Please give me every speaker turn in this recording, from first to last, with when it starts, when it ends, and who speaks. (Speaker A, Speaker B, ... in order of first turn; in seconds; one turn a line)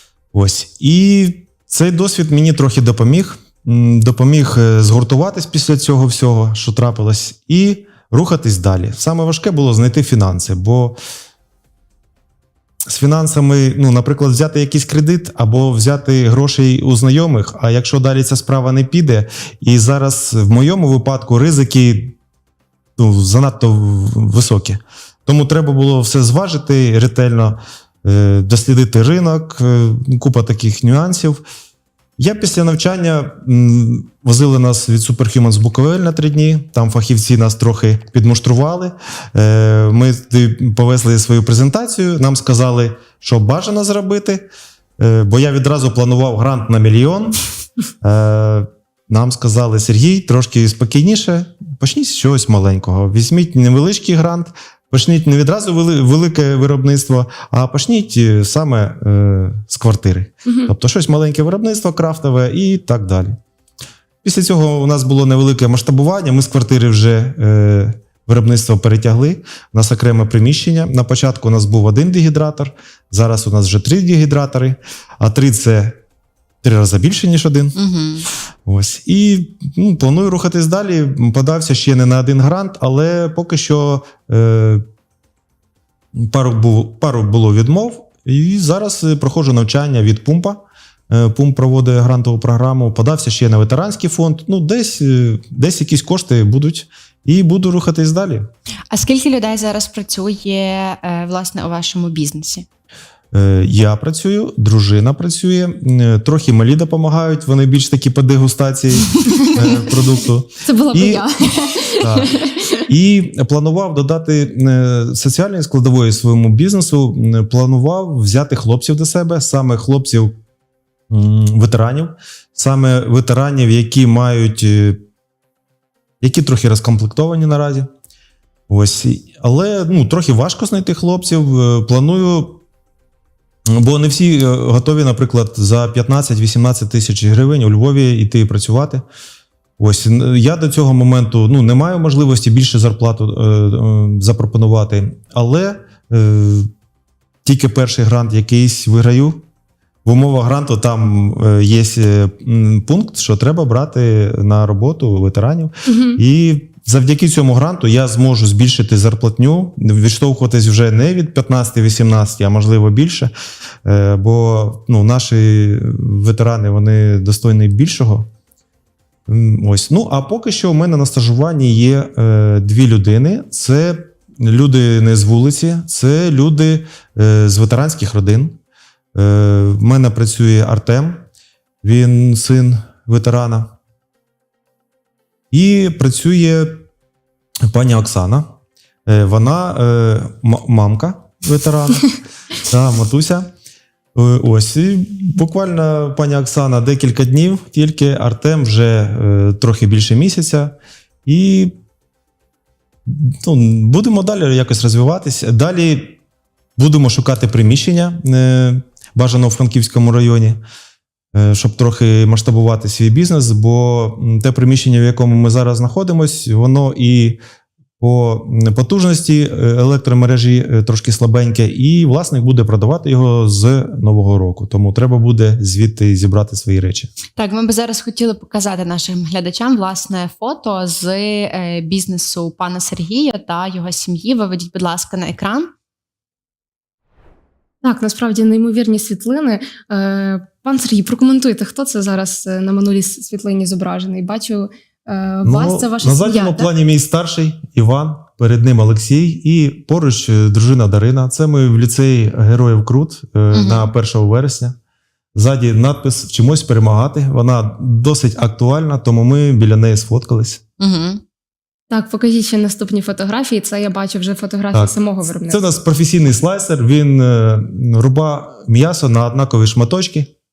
Speaker A: 0.3-11.0
Speaker A: 12.9-22.2
Speaker A: 23.0-31.4
Speaker A: 32.2-44.5
Speaker A: 45.0-47.4
Speaker A: 48.0-63.4
Speaker B: 60.5-60.7
Speaker A: 64.2-76.0
Speaker A: 76.6-77.8
Speaker C: 77.8-78.3
Speaker A: 78.7-84.8
Speaker A: 86.2-98.5
Speaker C: 98.9-102.7
Speaker A: 103.3-111.3
Speaker B: 110.6-112.8
Speaker A: 112.0-120.3
Speaker A: 121.1-125.0
Speaker A: 126.2-127.9
Speaker A: 128.7-132.6
Speaker A: 133.7-139.1
Speaker A: 139.8-146.7
Speaker A: 147.4-149.4
Speaker A: 150.1-163.3
Speaker B: 155.9-156.2
Speaker A: 163.8-168.3
Speaker A: 169.3-178.6
Speaker A: 179.2-181.2
Speaker A: 181.8-183.8
Speaker A: 185.5-186.7
Speaker A: 187.7-188.5
Speaker A: 189.1-192.1
Speaker A: 192.7-193.5
Speaker A: 194.2-200.7
Speaker A: 201.3-201.7
Speaker A: 203.1-206.2
Speaker A: 206.8-210.6
Speaker A: 211.3-217.4
Speaker A: 218.0-227.1
Speaker C: 227.4-235.7
Speaker B: 237.8-246.7
Speaker A: 245.4-254.8
Speaker C: 253.5-253.9
Speaker A: 255.3-260.6
Speaker C: 260.8-261.2
Speaker B: 261.9-265.6
Speaker A: 264.7-270.3